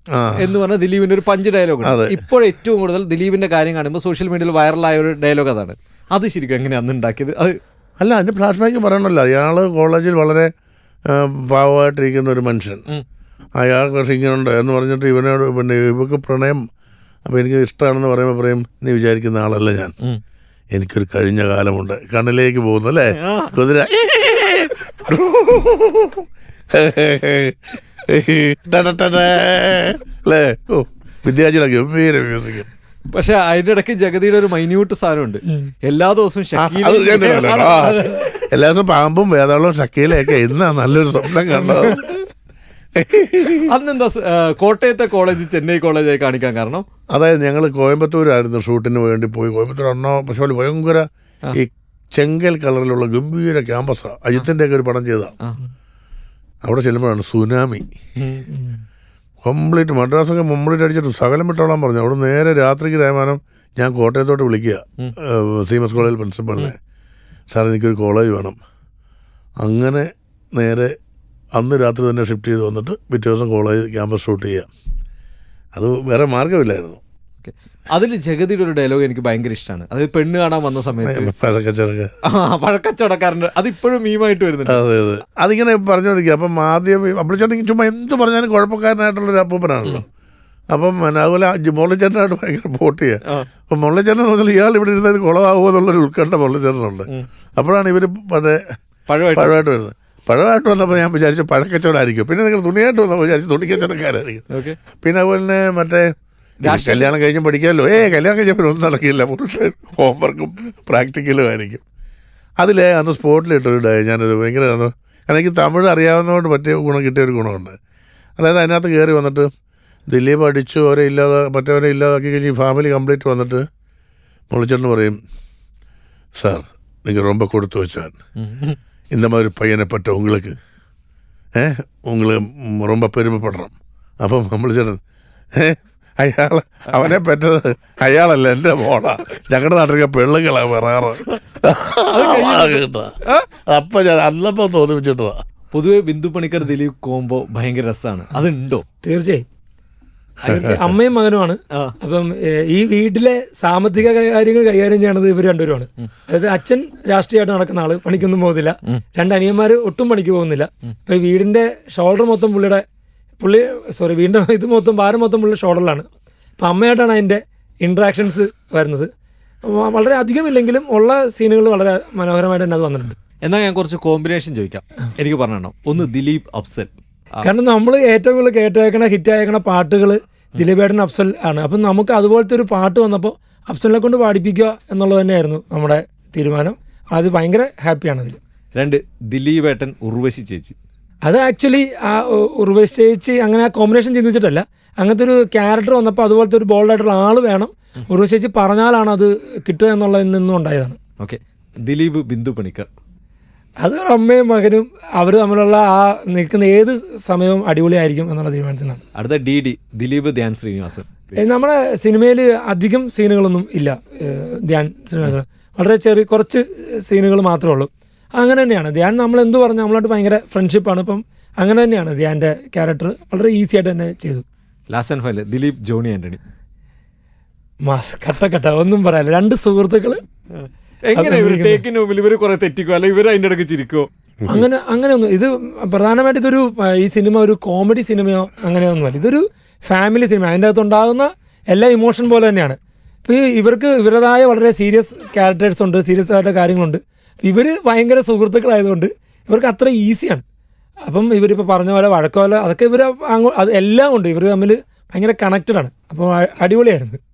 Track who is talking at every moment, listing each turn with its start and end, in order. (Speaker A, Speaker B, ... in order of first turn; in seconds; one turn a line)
Speaker A: 0.1-0.5
Speaker B: 0.3-7.6
Speaker A: 1.8-2.2
Speaker A: 8.0-10.5
Speaker A: 11.1-12.8
Speaker A: 13.6-16.6
Speaker A: 17.2-19.9
Speaker A: 20.7-32.7
Speaker B: 23.1-23.5
Speaker B: 33.1-38.1
Speaker A: 36.6-42.2
Speaker A: 43.0-43.7
Speaker B: 43.6-46.9
Speaker A: 47.1-55.3
Speaker A: 56.6-57.9
Speaker B: 58.2-58.4
Speaker C: 58.5-58.8
Speaker A: 59.4-66.8
Speaker A: 67.5-68.6
Speaker A: 69.6-70.9
Speaker A: 71.5-74.7
Speaker A: 75.7-77.0
Speaker B: 77.4-81.3
Speaker A: 81.0-82.1
Speaker B: 82.2-84.8
Speaker A: 84.7-90.1
Speaker A: 90.7-98.8
Speaker B: 99.1-99.6
Speaker A: 99.3-104.5
Speaker B: 104.5-104.8
Speaker A: 105.0-106.1
Speaker B: 106.6-107.1
Speaker A: 106.6-111.8
Speaker A: 112.6-117.8
Speaker A: 118.4-119.5
Speaker A: 120.1-123.6
Speaker A: 124.5-125.2
Speaker A: 126.3-128.2
Speaker B: 128.4-128.8
Speaker A: 129.1-130.6
Speaker A: 131.6-135.0
Speaker A: 135.6-145.4
Speaker B: 142.1-143.4
Speaker B: 145.7-148.8
Speaker C: 149.0-149.4
Speaker C: 150.4-162.8
Speaker A: 150.5-150.8
Speaker C: 163.4-166.1
Speaker C: 166.6-169.1
Speaker C: 169.6-173.2
Speaker B: 173.4-177.5
Speaker C: 177.4-188.4
Speaker B: 188.8-190.8
Speaker C: 191.2-201.0
Speaker B: 201.2-202.9
Speaker C: 203.8-209.0
Speaker B: 209.1-211.4
Speaker C: 211.4-224.4
Speaker B: 224.9-226.4
Speaker C: 227.8-230.2
Speaker B: 230.5-234.1
Speaker C: 231.2-231.8
Speaker C: 234.5-250.4
Speaker C: 251.1-257.2